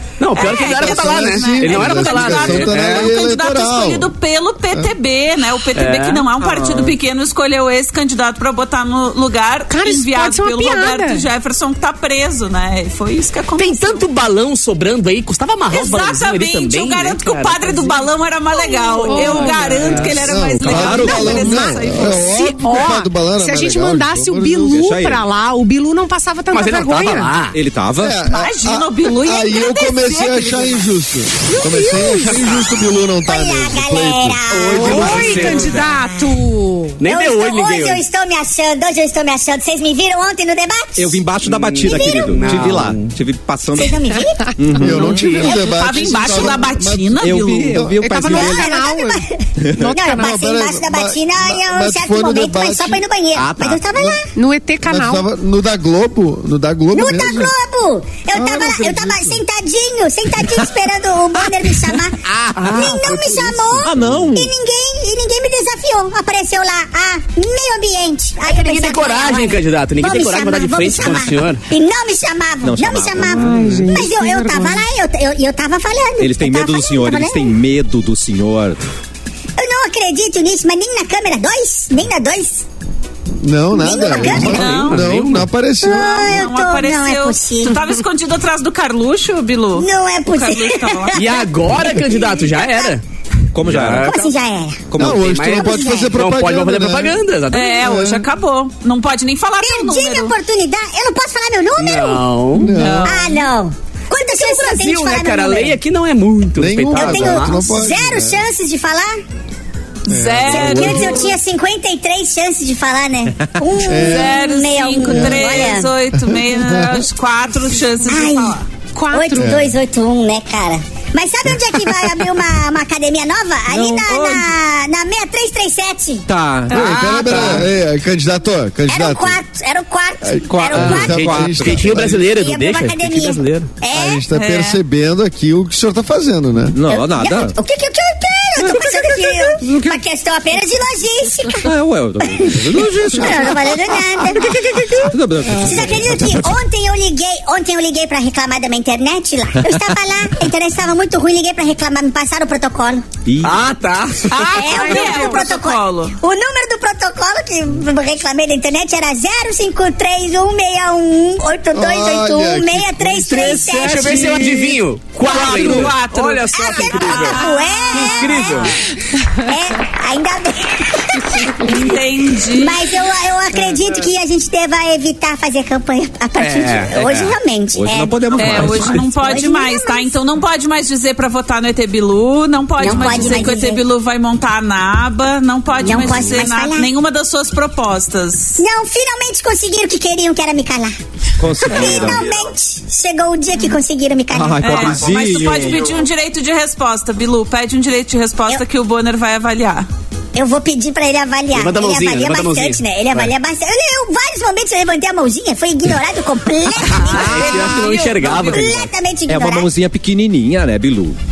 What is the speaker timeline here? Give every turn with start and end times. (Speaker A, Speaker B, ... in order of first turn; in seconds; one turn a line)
Speaker A: 0.2-3.1
Speaker B: 0.3-14.1
Speaker C: 0.6-4.1
Speaker A: 5.8-6.9
Speaker D: 9.7-11.2
Speaker A: 13.6-18.0
Speaker B: 15.7-22.6
Speaker A: 18.9-20.2
Speaker D: 19.1-20.2
Speaker C: 20.2-24.8
Speaker E: 20.6-21.6
Speaker D: 22.6-27.3
Speaker E: 24.7-25.2
Speaker A: 26.5-27.6
Speaker E: 27.5-28.2
Speaker C: 27.9-35.5
Speaker B: 28.2-30.9
Speaker D: 31.4-32.4
Speaker F: 33.2-35.7
Speaker A: 34.5-35.9
Speaker D: 34.7-37.0
Speaker E: 34.9-35.2
Speaker A: 37.0-38.0
Speaker F: 37.0-41.2
Speaker E: 41.0-44.0
Speaker A: 41.4-43.2
Speaker F: 41.8-42.5
Speaker F: 43.7-44.6
Speaker E: 44.5-45.5
Speaker C: 44.8-48.0
Speaker B: 45.4-47.8
Speaker E: 47.2-48.8
Speaker D: 48.0-49.2
Speaker F: 48.2-54.3
Speaker E: 49.6-49.9
Speaker D: 49.8-50.4
Speaker C: 50.0-53.0
Speaker E: 53.3-53.9
Speaker D: 54.4-55.2
Speaker C: 54.9-57.5
Speaker F: 56.9-62.2
Speaker C: 58.3-59.4
Speaker E: 62.5-62.9
Speaker A: 62.5-64.0
Speaker F: 62.7-77.5
Speaker E: 63.8-64.5
Speaker A: 68.4-71.6
Speaker E: 72.6-73.5
Speaker A: 73.3-73.9
Speaker D: 73.3-74.8
Speaker E: 76.2-78.8
Speaker F: 79.6-82.6
Speaker C: 83.4-86.3
Speaker F: 83.7-84.7
Speaker B: 84.1-85.2
Speaker A: 84.3-85.5
Speaker F: 85.8-87.8
Speaker B: 85.9-91.5
Speaker F: 89.8-92.9
Speaker A: 91.1-93.0
Speaker E: 93.5-94.2
Speaker A: 93.6-94.3
Speaker F: 94.0-94.8
Speaker E: 94.9-95.5
Speaker C: 95.0-97.2
Speaker A: 95.0-97.8
Speaker F: 95.5-96.1
Speaker B: 97.5-100.3
Speaker C: 97.8-98.2
Speaker F: 99.6-102.3
Speaker A: 101.8-102.8
Speaker C: 102.5-103.2
Speaker B: 102.7-103.5
Speaker F: 103.0-105.8
Speaker A: 104.3-107.6
Speaker C: 106.5-108.4
Speaker F: 106.9-109.2
Speaker B: 110.0-111.3
Speaker C: 110.1-111.2
Speaker F: 110.5-115.9
Speaker C: 113.8-114.4
Speaker B: 114.0-118.6
Speaker C: 115.0-117.0
Speaker F: 118.0-118.6
Speaker D: 118.9-119.6
Speaker F: 119.1-126.2
Speaker C: 119.4-119.8
Speaker E: 123.7-124.5
Speaker E: 126.3-126.7
Speaker A: 126.7-127.7
Speaker C: 126.7-129.4
Speaker B: 126.8-127.2
Speaker F: 128.9-131.2
Speaker C: 130.2-132.2
Speaker E: 130.5-132.0
Speaker A: 130.7-133.7
Speaker F: 131.8-134.2
Speaker C: 133.9-136.8
Speaker B: 134.3-134.8
Speaker E: 136.7-137.5
Speaker F: 136.9-141.7
Speaker E: 139.6-140.0
Speaker E: 141.6-144.5
Speaker F: 142.3-153.1
Speaker E: 145.1-146.6
Speaker E: 153.2-153.6
Speaker A: 153.4-154.4
Speaker B: 154.3-156.2
Speaker F: 154.5-164.5
Speaker D: 154.5-155.5
Speaker C: 161.7-163.7
Speaker E: 163.3-164.4
Speaker A: 163.4-168.8
Speaker B: 165.2-168.7
Speaker E: 165.3-165.9
Speaker F: 166.5-168.8
Speaker F: 169.3-180.1
Speaker B: 171.6-172.9
Speaker A: 176.4-177.3
Speaker E: 177.7-179.4
Speaker B: 178.3-188.6
Speaker F: 182.8-183.8
Speaker F: 185.8-186.9
Speaker F: 188.6-190.9
Speaker E: 191.4-192.4
Speaker F: 191.5-195.1
Speaker E: 194.3-195.9
Speaker B: 194.6-199.9
Speaker F: 200.3-207.5
Speaker A: 201.5-203.3
Speaker B: 206.8-208.7
Speaker A: 207.0-208.9
Speaker E: 207.3-207.6
Speaker F: 208.3-209.7
Speaker E: 209.3-211.2